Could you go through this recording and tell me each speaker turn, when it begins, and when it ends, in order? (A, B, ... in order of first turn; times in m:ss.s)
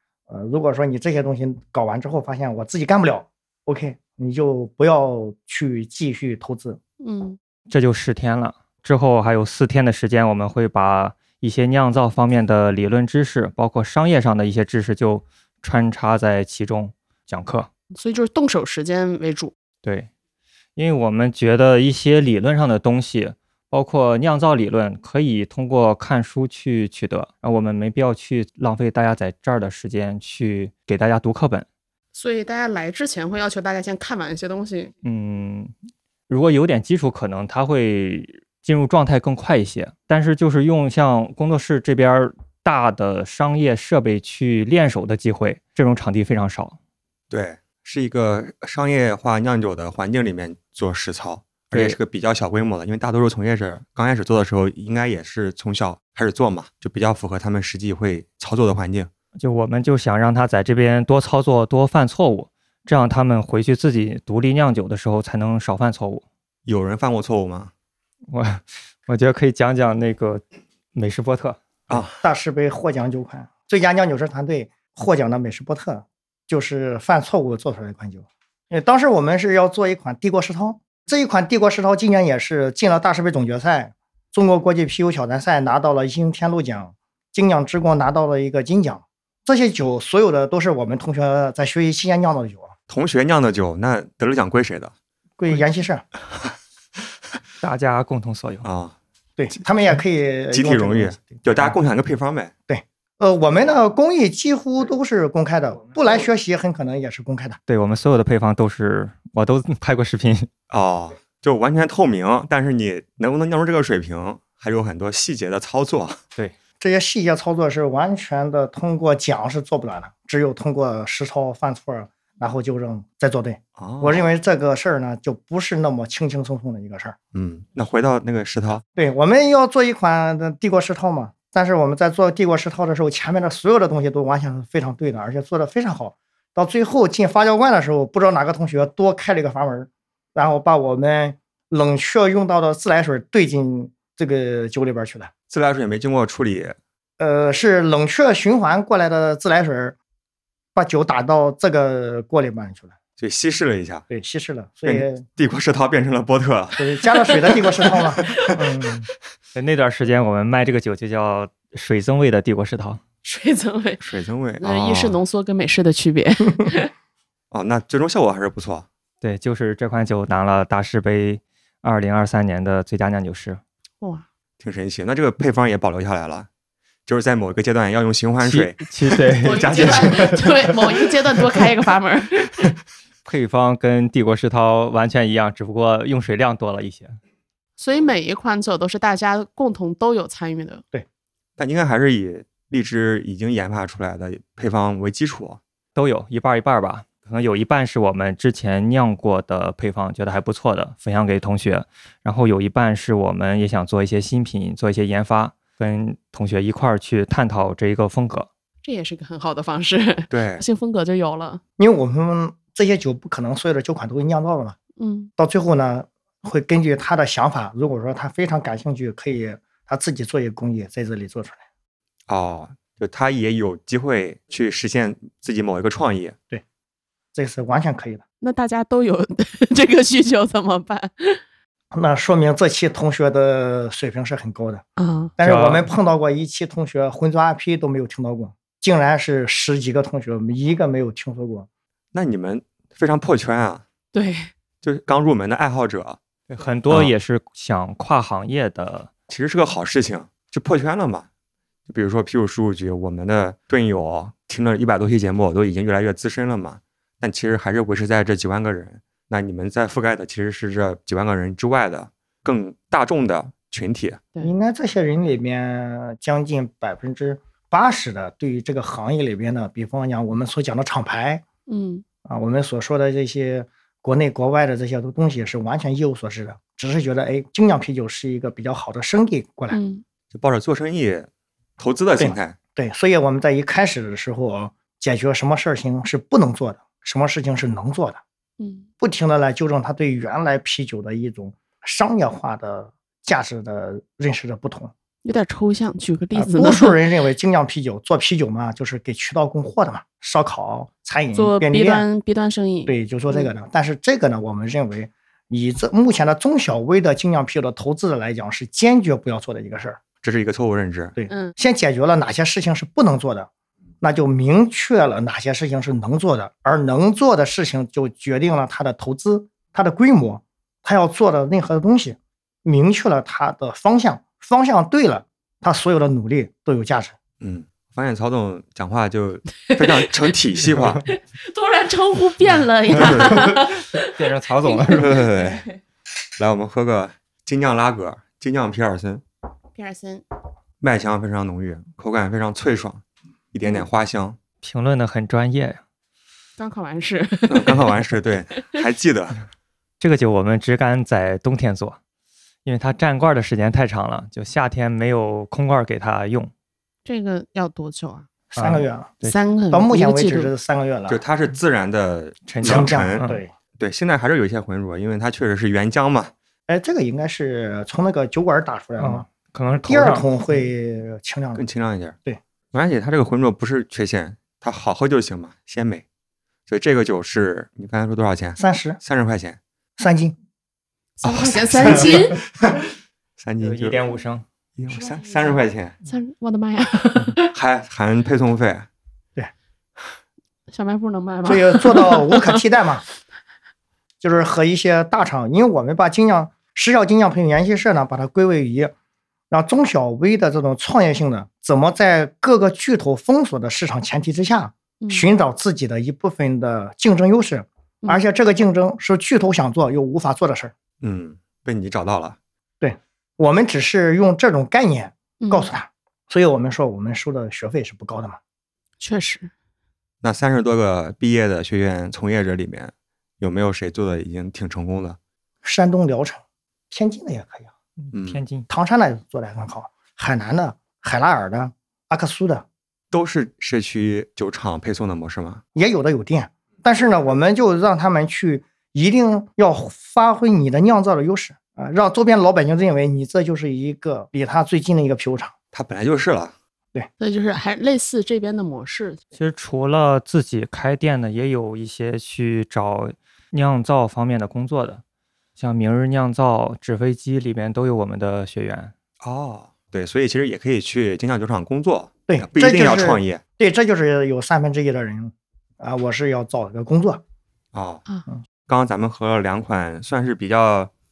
0:00.3-0:06.8 A
0:07.0-0:07.4 B
0:07.7-0:17.7 C
0:18.0-0:19.5 B
0:19.8-0:20.1 C
0:20.8-0:31.7 C
0:32.1-0:34.9 B
0:35.0-0:35.7 C
0:36.3-0:46.8 C
0:47.3-0:59.1 D
0:51.7-0:52.0 C
0:59.4-1:06.2 C
1:06.7-1:07.7 D
1:08.3-1:10.4 C
1:10.9-1:11.6 C
1:11.9-1:12.2 D
1:12.2-1:32.7 A
1:32.9-1:34.9 D
1:35.4-1:36.0 A
1:37.6-1:38.6 C
1:38.6-1:39.0 D
1:39.4-1:41.8 A
1:40.5-1:42.5 D
1:42.7-1:47.6 A
1:47.7-1:50.5 C
1:50.7-1:56.2 D
1:56.8-2:07.2 A
2:03.8-2:04.2 D
2:07.3-2:08.8 D
2:09.0-2:25.3 A
2:25.5-2:26.8 D
2:27.2-2:30.0 A
2:30.8-2:33.0 A
2:33.2-2:34.1 D
2:34.1-2:35.3 A
2:34.9-2:37.3 D
2:36.8-2:39.1 A
2:38.2-2:38.5 B
2:39.6-2:43.0 C
2:43.2-2:44.1 B
2:44.0-2:45.2 D
2:44.6-2:46.9 B
2:47.5-2:48.9 D
2:49.2-2:53.6 C
2:54.0-2:54.3 B
2:54.6-2:56.5 D
2:57.1-3:01.1 D
2:58.4-3:00.5 C
2:59.4-3:02.7 B
3:03.2-3:07.2 C
3:07.8-3:10.8 B
3:11.6-3:15.6 D
3:16.0-3:28.5 C
3:28.8-3:31.6 B
3:30.3-3:30.6 D
3:31.8-3:34.8 A
3:35.0-3:35.3 B
3:35.4-3:41.6 A
3:42.3-3:46.4 D
3:47.3-3:48.2 A
3:48.4-3:51.4 B
3:51.9-3:54.8 A
3:55.0-3:55.3 B
3:55.4-4:01.7 A
3:55.4-3:55.9 C
4:02.1-4:03.8 D
4:04.1-4:04.5 B
4:04.8-4:06.2 D
4:06.5-4:09.1 C
4:09.3-4:11.3 D
4:11.9-4:24.2 D
4:24.4-4:31.4 A
4:31.7-4:32.0 B
4:32.3-4:39.8 A
4:39.7-4:40.0 B
4:40.3-4:42.6 D
4:42.2-4:48.2 A
4:48.6-4:48.9 B
4:49.0-4:54.9 A
4:55.2-4:57.0 B
4:56.4-5:02.1 A
5:01.3-5:03.5 B
5:02.9-5:10.0 A
5:10.2-5:11.2 D
5:11.2-5:13.5 A
5:11.3-5:11.5 B
5:14.0-5:27.2 A
5:27.4-5:31.0 D
5:29.7-5:30.2 B
5:31.1-5:35.7 B
5:33.0-5:33.3 D
5:33.2-5:35.2 C
5:34.9-5:35.7 D
5:36.4-5:39.2 D
5:39.8-5:40.2 B
5:40.8-5:44.4 D
5:44.6-5:45.8 C
5:46.6-5:48.8 B
5:47.5-5:49.4 D
5:50.0-5:52.0 C
5:52.6-5:56.5 C
5:57.0-5:58.3 B
5:58.5-5:59.2 A
5:58.6-5:59.4 C
5:59.2-6:00.5 B
5:59.7-6:01.2 A
6:01.1-6:03.2 D
6:02.5-6:03.4 C
6:02.6-6:03.5 A
6:03.8-6:06.3 D
6:06.7-6:09.3 A
6:09.0-6:10.3 C
6:09.8-6:11.6 A
6:11.6-6:12.2 D
6:12.7-6:16.0 D
6:16.7-6:19.6 D
6:18.6-6:19.0 A
6:20.0-6:20.4 A
6:21.2-6:22.4 B
6:21.2-6:22.8 D
6:23.4-6:24.0 D
6:23.6-6:24.4 C
6:24.8-6:26.0 D
6:24.9-6:27.5 B
6:27.4-6:28.9 D
6:30.7-6:32.6 B
6:31.5-6:33.0 A
6:34.2-6:38.9 A
6:39.5-6:50.7 A
6:45.0-6:45.3 B
6:51.0-6:52.4 D
6:52.8-6:58.4 A
6:55.4-6:55.7 B
6:59.0-6:59.5 B
7:00.2-7:05.2 D
7:05.6-7:07.7 A
7:08.0-7:08.7 C
7:08.1-7:08.4 D
7:08.7-7:12.7 A
7:13.1-7:15.6 D
7:15.8-7:25.5 A
7:25.7-7:26.6 D
7:27.2-7:29.2 B
7:29.4-7:35.0 C
7:35.6-7:38.9 C
7:39.2-7:43.4 D
7:42.3-7:47.2 A
7:47.7-7:48.0 D
7:48.7-7:50.9 D